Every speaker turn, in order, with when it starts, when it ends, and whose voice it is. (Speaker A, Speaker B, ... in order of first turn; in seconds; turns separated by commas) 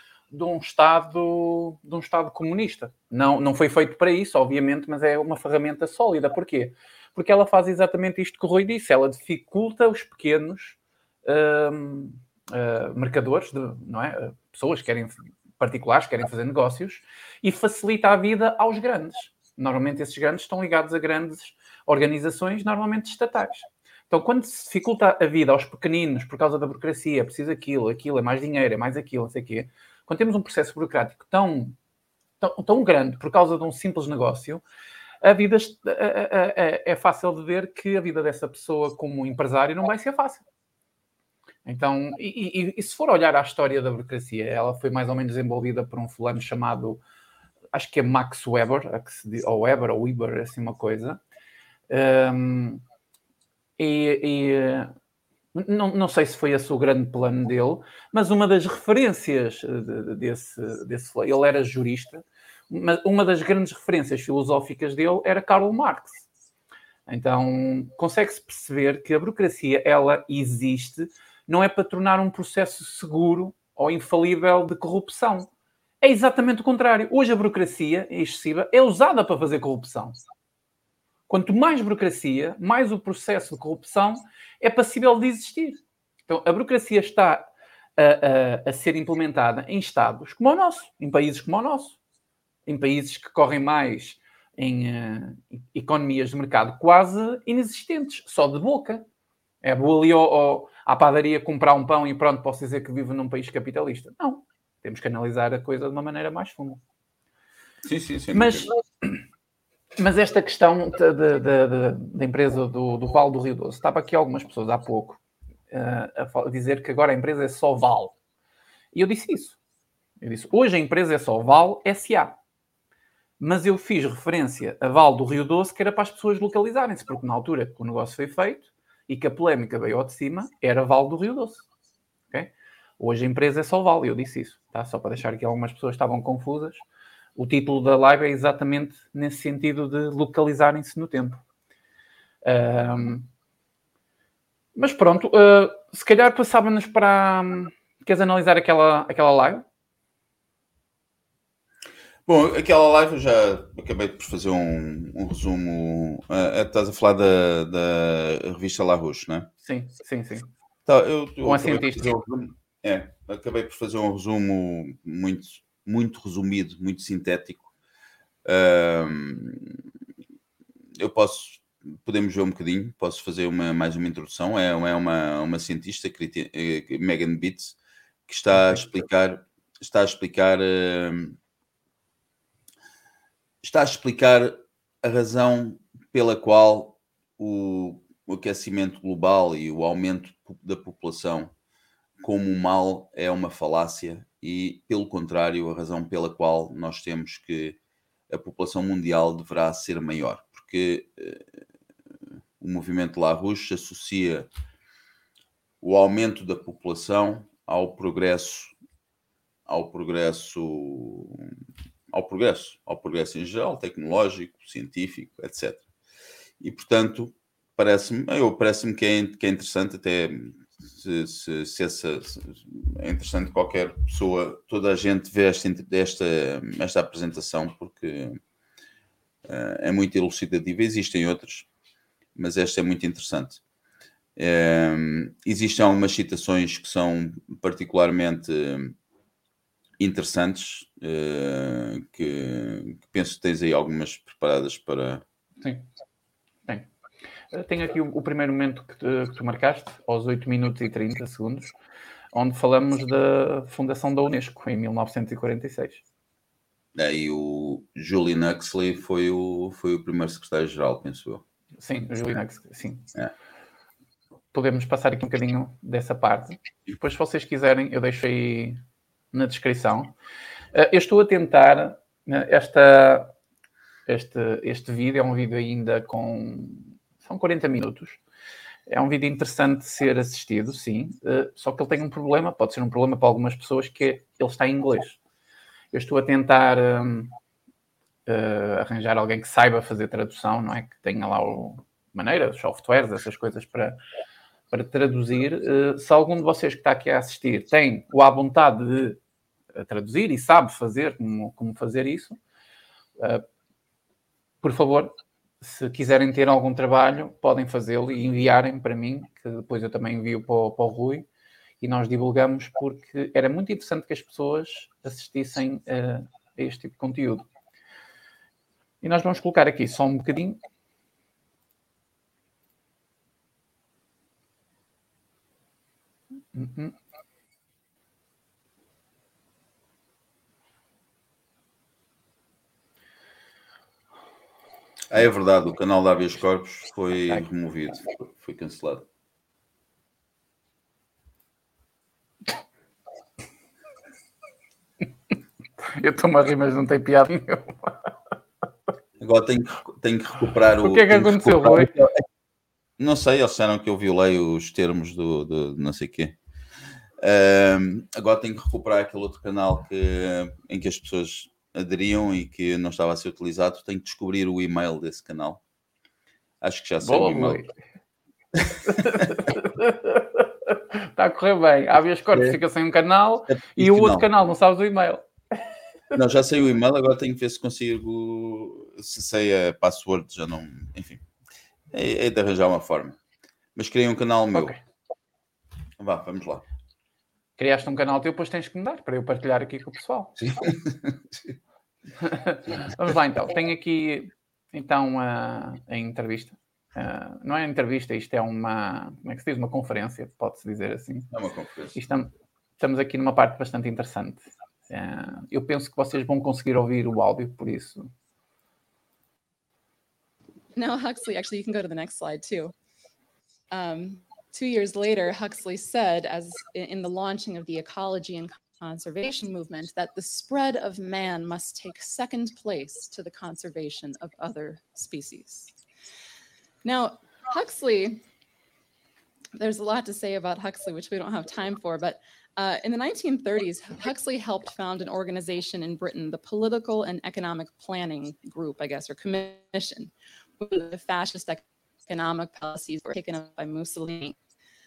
Speaker A: 0.3-31.7, Speaker A: 32.4-34.6, Speaker A: 35.2-40.4, Speaker A: 41.6-47.0, Speaker A: 47.7-51.2, Speaker A: 51.9-52.8, Speaker A: 53.8-54.9, Speaker A: 55.5-66.3, Speaker A: 67.1-75.5, Speaker A: 76.0-80.2, Speaker A: 81.3-92.0, Speaker A: 92.7-99.0, Speaker A: 99.6-106.8, Speaker B: 107.8-108.7, Speaker A: 108.3-109.2, Speaker A: 110.0-115.2, Speaker A: 115.7-118.1, Speaker A: 118.9-119.6, Speaker A: 120.2-122.4, Speaker A: 123.4-131.7, Speaker A: 132.3-136.8, Speaker A: 137.4-141.4, Speaker A: 142.4-143.3, Speaker A: 144.7-149.6, Speaker B: 152.3-159.5, Speaker A: 159.6-160.5, Speaker B: 160.9-167.7, Speaker A: 161.4-162.1, Speaker B: 168.4-169.8, Speaker B: 171.0-177.8, Speaker B: 178.3-181.4, Speaker A: 178.5-178.8, Speaker B: 183.6-191.5, Speaker B: 192.2-197.8, Speaker B: 198.3-201.4, Speaker B: 202.6-204.5, Speaker B: 205.8-208.7, Speaker B: 209.7-211.5, Speaker B: 212.1-215.8, Speaker B: 216.6-228.4, Speaker B: 229.4-231.7, Speaker B: 232.4-233.6, Speaker B: 234.4-238.9, Speaker B: 240.0-245.2, Speaker A: 247.5-251.7, Speaker A: 252.3-256.0, Speaker B: 256.9-261.4, Speaker A: 261.8-263.1, Speaker A: 264.5-268.8, Speaker A: 269.3-270.1, Speaker A: 270.7-273.3, Speaker A: 274.1-278.2, Speaker A: 278.9-285.2, Speaker A: 285.9-287.3, Speaker A: 288.3-294.0, Speaker A: 294.7-299.2, Speaker A: 299.7-302.4, Speaker A: 303.2-303.4, Speaker A: 304.6-311.3, Speaker A: 311.8-317.5, Speaker A: 319.0-320.6, Speaker A: 326.5-326.9, Speaker B: 335.1-339.1, Speaker A: 346.0-347.9, Speaker B: 349.2-352.2, Speaker A: 350.8-351.9, Speaker B: 353.0-356.4, Speaker B: 357.2-365.6, Speaker B: 366.6-367.7, Speaker A: 367.0-367.7, Speaker B: 368.6-369.3, Speaker A: 368.9-375.3, Speaker B: 372.3-372.6, Speaker B: 373.5-374.3, Speaker B: 376.1-381.2, Speaker B: 381.9-383.2, Speaker B: 383.8-384.8, Speaker B: 386.0-386.6, Speaker A: 387.6-390.4, Speaker B: 390.4-391.1, Speaker A: 392.2-401.3, Speaker B: 401.3-401.9, Speaker A: 401.9-408.1, Speaker C: 410.7-412.7, Speaker C: 413.7-425.8, Speaker C: 426.8-428.2, Speaker C: 429.6-444.4